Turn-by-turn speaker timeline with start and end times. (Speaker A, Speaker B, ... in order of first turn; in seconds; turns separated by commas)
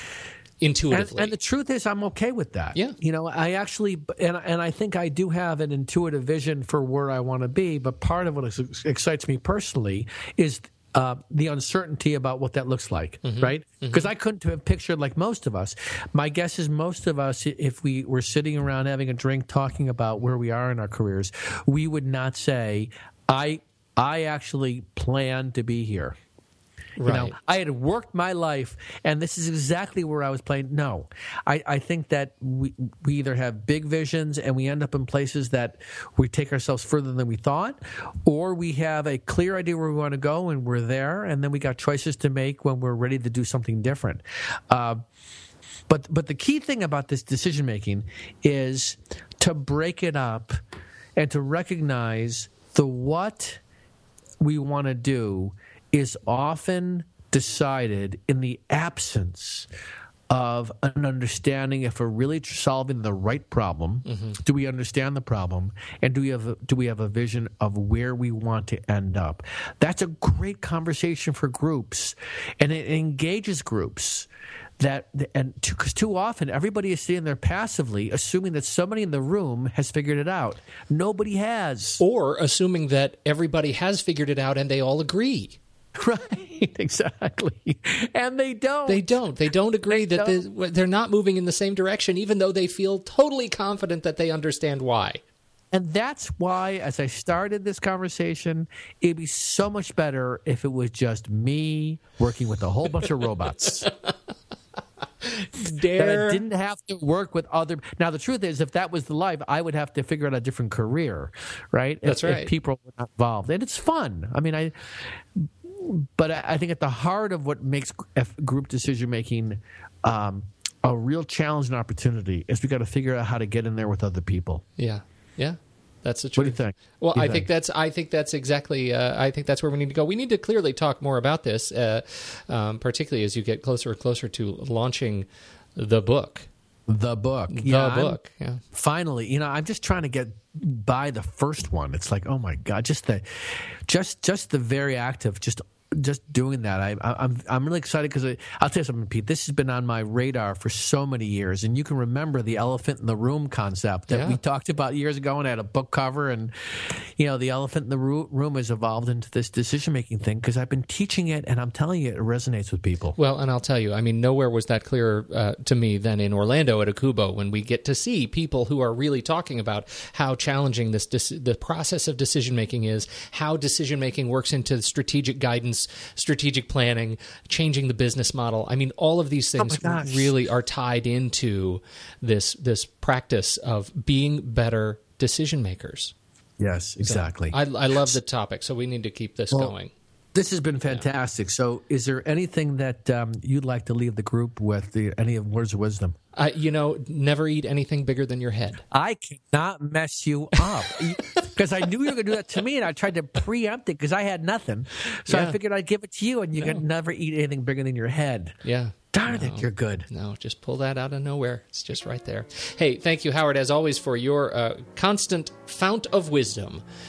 Speaker A: 0.6-1.3, Speaker B: 0.9-26.1, Speaker A: 13.2-14.1, Speaker A: 27.0-27.3, Speaker B: 27.0-45.0, Speaker B: 45.9-50.5, Speaker B: 51.2-53.6, Speaker B: 54.4-59.7, Speaker B: 60.3-74.3, Speaker A: 64.1-64.4, Speaker B: 74.8-82.0, Speaker A: 82.0-85.6, Speaker B: 86.0-89.2, Speaker A: 88.9-95.2, Speaker B: 89.9-90.4, Speaker B: 95.7-103.9, Speaker A: 105.2-106.4, Speaker B: 105.9-114.7, Speaker A: 112.0-112.5, Speaker B: 115.3-124.6, Speaker A: 124.8-136.5, Speaker B: 126.3-127.5, Speaker B: 136.9-138.2, Speaker A: 137.5-138.6, Speaker B: 138.7-143.2, Speaker B: 143.9-163.2, Speaker A: 154.1-154.4, Speaker A: 163.2-186.1, Speaker B: 179.6-180.3, Speaker B: 186.6-188.2, Speaker A: 187.0-189.9, Speaker B: 190.3-196.1, Speaker A: 196.3-198.8, Speaker B: 198.9-208.5, Speaker A: 200.6-201.4, Speaker A: 205.3-205.6, Speaker A: 206.6-206.8, Speaker A: 208.6-216.8, Speaker B: 209.1-210.1